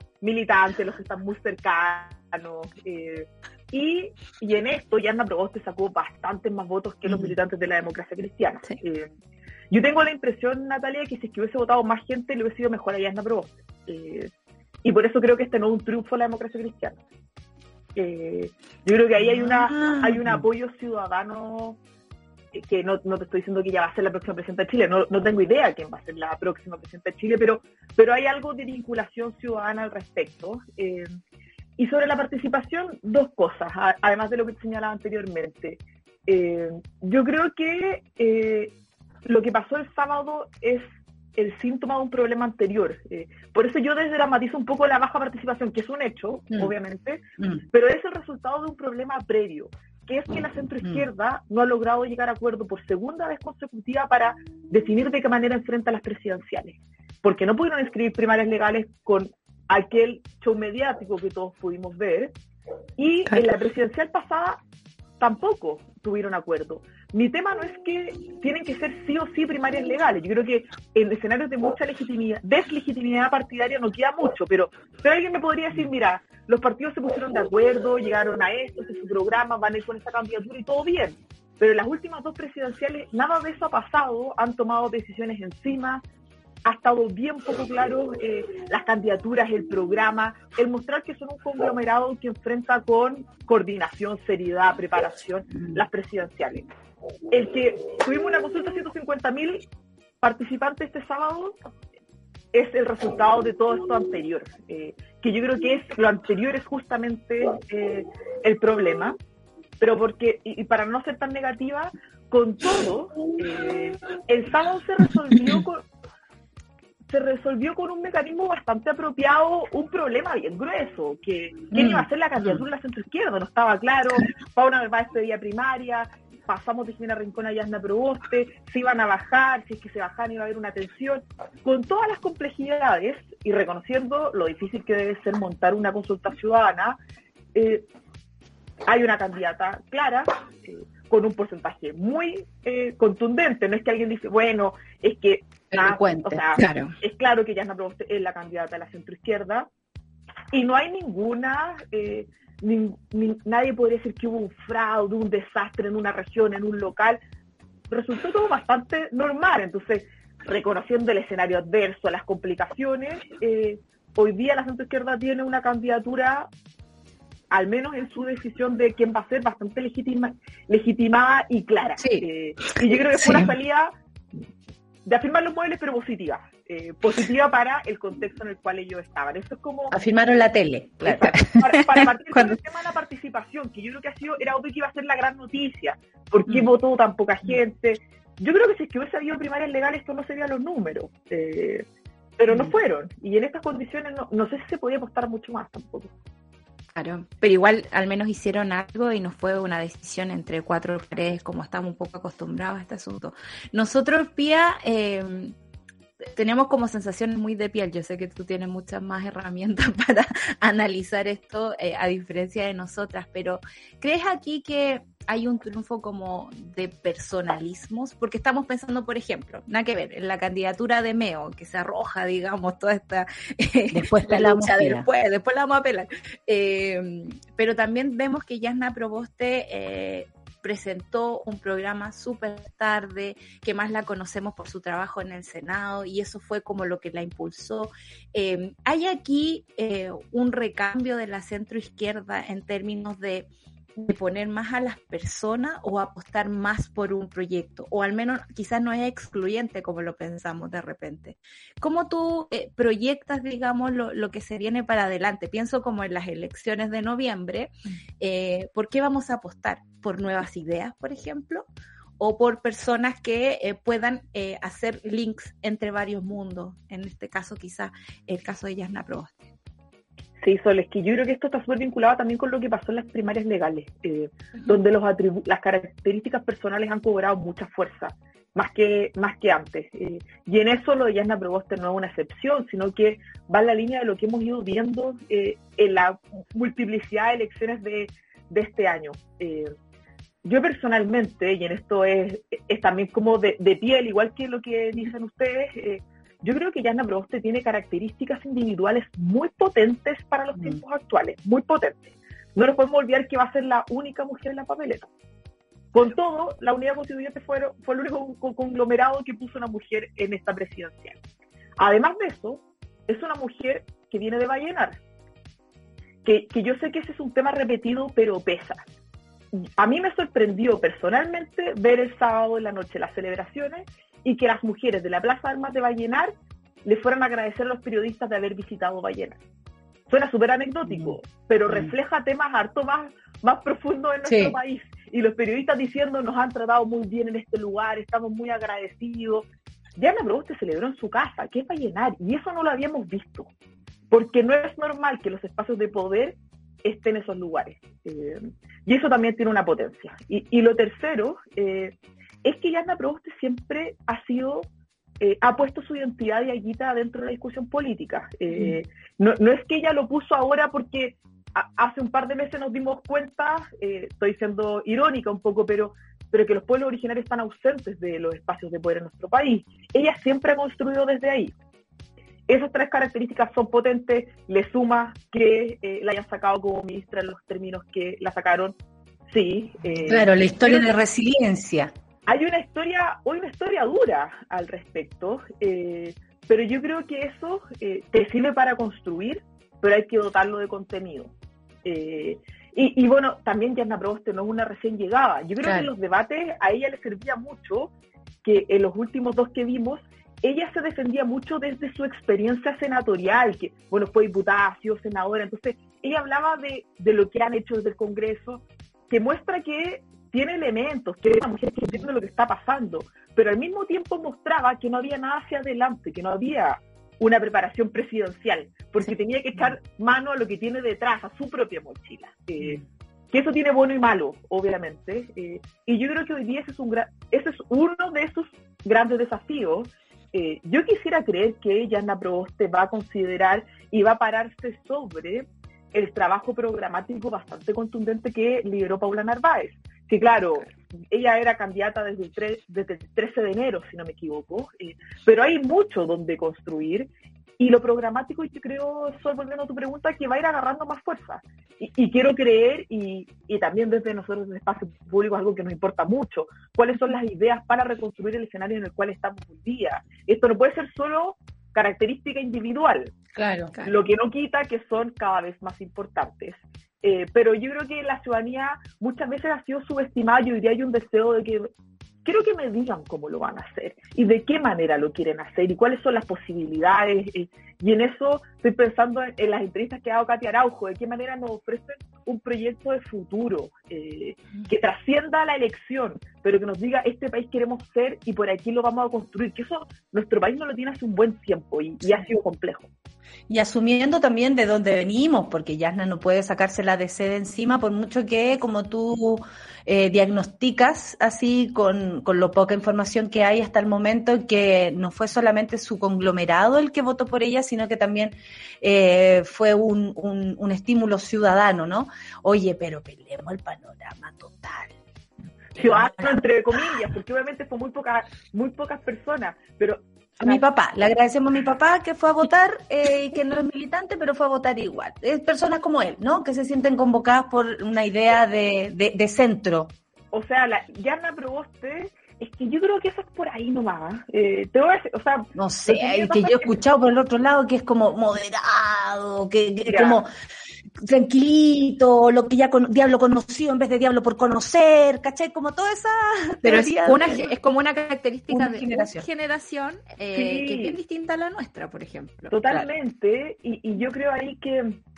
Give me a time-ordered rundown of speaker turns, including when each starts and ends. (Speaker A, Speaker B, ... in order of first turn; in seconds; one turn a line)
Speaker A: 0.2-9.1
Speaker A: 9.7-14.3
Speaker A: 14.8-17.0
Speaker A: 17.9-21.8
Speaker B: 19.2-20.4
Speaker A: 22.5-31.1
Speaker A: 31.8-38.7
Speaker A: 39.2-62.3
Speaker A: 63.0-64.6
Speaker A: 65.2-86.0
Speaker A: 86.6-96.7
Speaker A: 97.3-99.7
Speaker A: 100.2-101.5
Speaker A: 102.5-109.2
Speaker A: 109.8-115.8
Speaker A: 117.1-137.0
Speaker B: 121.7-122.6
Speaker A: 137.6-137.9
Speaker A: 138.9-149.7
Speaker B: 145.7-146.4
Speaker C: 146.6-146.9
Speaker A: 150.5-157.2
Speaker A: 157.9-166.5
Speaker A: 167.5-173.9
Speaker B: 172.0-172.3
Speaker B: 173.2-173.5
Speaker A: 175.1-179.9
Speaker B: 179.9-181.4
Speaker A: 181.1-191.8
Speaker A: 192.4-196.1
Speaker C: 196.9-205.5
Speaker C: 206.4-243.4
Speaker B: 223.9-225.1
Speaker C: 244.0-261.7
Speaker C: 262.2-269.5
Speaker A: 270.4-289.7
Speaker A: 290.4-305.1
Speaker A: 305.9-311.2
Speaker A: 311.8-315.0
Speaker A: 316.2-318.9
Speaker A: 319.5-326.3
Speaker A: 326.8-329.4
Speaker A: 330.1-339.4
Speaker B: 330.9-331.2
Speaker B: 331.7-331.9
Speaker B: 334.2-334.6
Speaker A: 340.0-343.5
Speaker A: 344.1-354.7
Speaker A: 355.2-371.6
Speaker A: 372.5-378.7
Speaker A: 379.3-380.9
Speaker B: 380.1-381.9
Speaker A: 382.3-391.3
Speaker A: 391.8-397.9
Speaker B: 395.6-395.9
Speaker A: 398.4-422.8
Speaker A: 423.3-463.1
Speaker B: 463.4-463.7
Speaker A: 463.8-471.7
Speaker A: 472.2-492.9
Speaker B: 493.5-515.0
Speaker A: 515.8-520.6
Speaker B: 515.8-517.0
Speaker B: 520.4-529.9
Speaker A: 530.3-536.7
Speaker B: 535.5-540.3
Speaker A: 539.8-540.2
Speaker B: 541.0-547.3
Speaker C: 546.6-552.6
Speaker B: 548.5-549.3
Speaker A: 550.3-551.0
Speaker A: 552.5-555.0